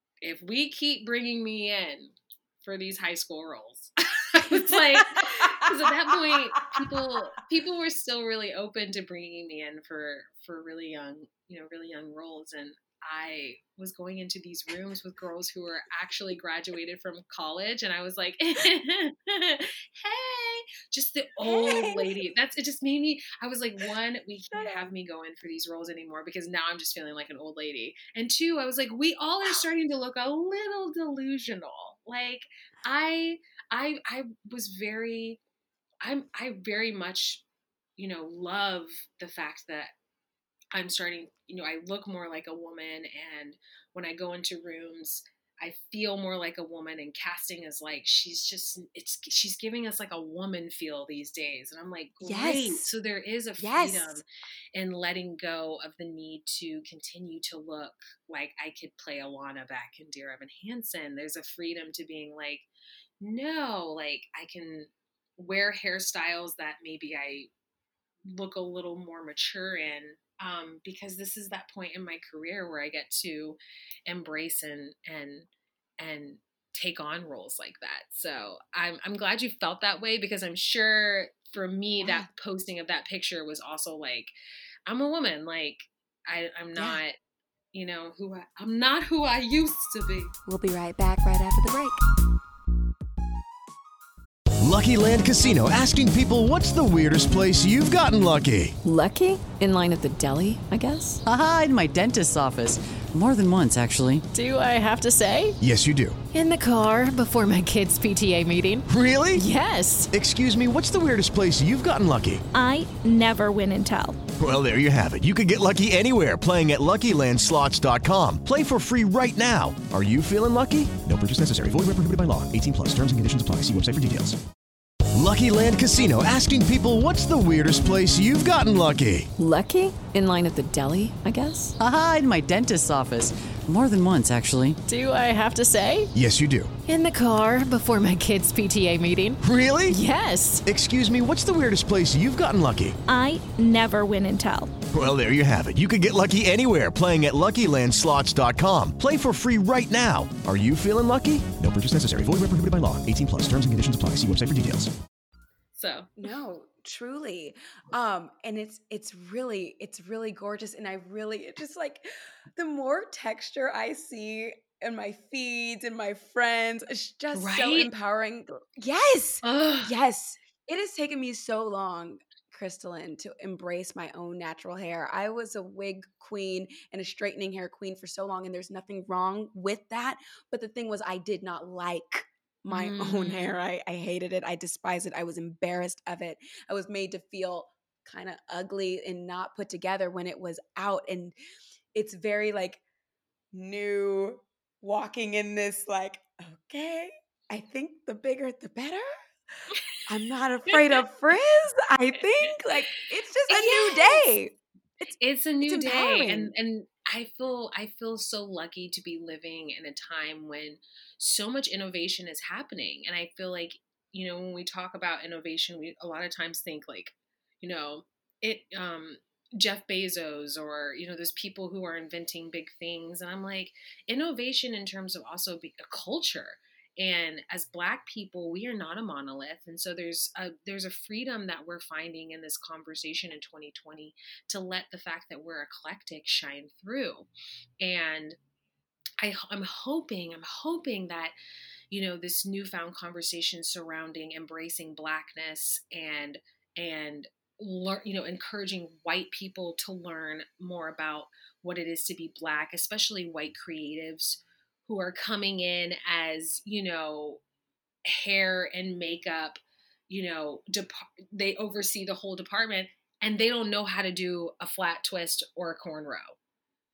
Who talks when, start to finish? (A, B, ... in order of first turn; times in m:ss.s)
0:00.2-0:35.4 A
0:04.7-0:05.7 B
0:21.4-0:22.2 B
0:24.5-0:24.9 B
0:36.0-0:37.4 A
0:38.0-0:39.9 A
0:40.7-1:02.7 A
0:52.2-0:52.9 B
0:53.6-0:54.2 B
1:03.2-1:07.5 A
1:08.3-1:24.3 A
1:22.0-1:22.3 B
1:24.8-1:27.2 A
1:26.7-1:27.0 B
1:27.7-1:30.3 A
1:30.4-1:32.0 B
1:34.6-1:38.7 C
1:38.8-1:41.2 D
1:41.2-1:44.2 E
1:44.3-1:45.6 F
1:45.6-1:46.2 C
1:46.3-1:50.1 F
1:48.9-1:49.4 C
1:50.1-1:52.4 C
1:52.5-1:54.2 G
1:54.4-2:04.4 C
2:05.1-2:09.3 C
2:09.4-2:11.8 D
2:11.8-2:14.8 E
2:14.8-2:16.1 F
2:16.1-2:16.7 C
2:16.8-2:20.6 F
2:19.4-2:20.0 C
2:20.6-2:23.0 C
2:23.1-2:24.7 G
2:24.9-2:34.9 C
2:35.7-2:36.1 A
2:36.2-3:11.4 B
2:47.3-2:47.9 A
2:49.4-2:49.9 A
3:02.7-3:03.6 A
3:11.9-3:12.8 B
3:13.5-3:19.1 B
3:20.0-3:25.1 B
3:23.5-3:24.4 A
3:25.1-3:57.3 A
3:25.6-3:26.5 B
3:57.8-3:58.4 A
3:59.2-4:01.3 A
4:01.9-4:17.4 A
4:18.0-4:26.4 A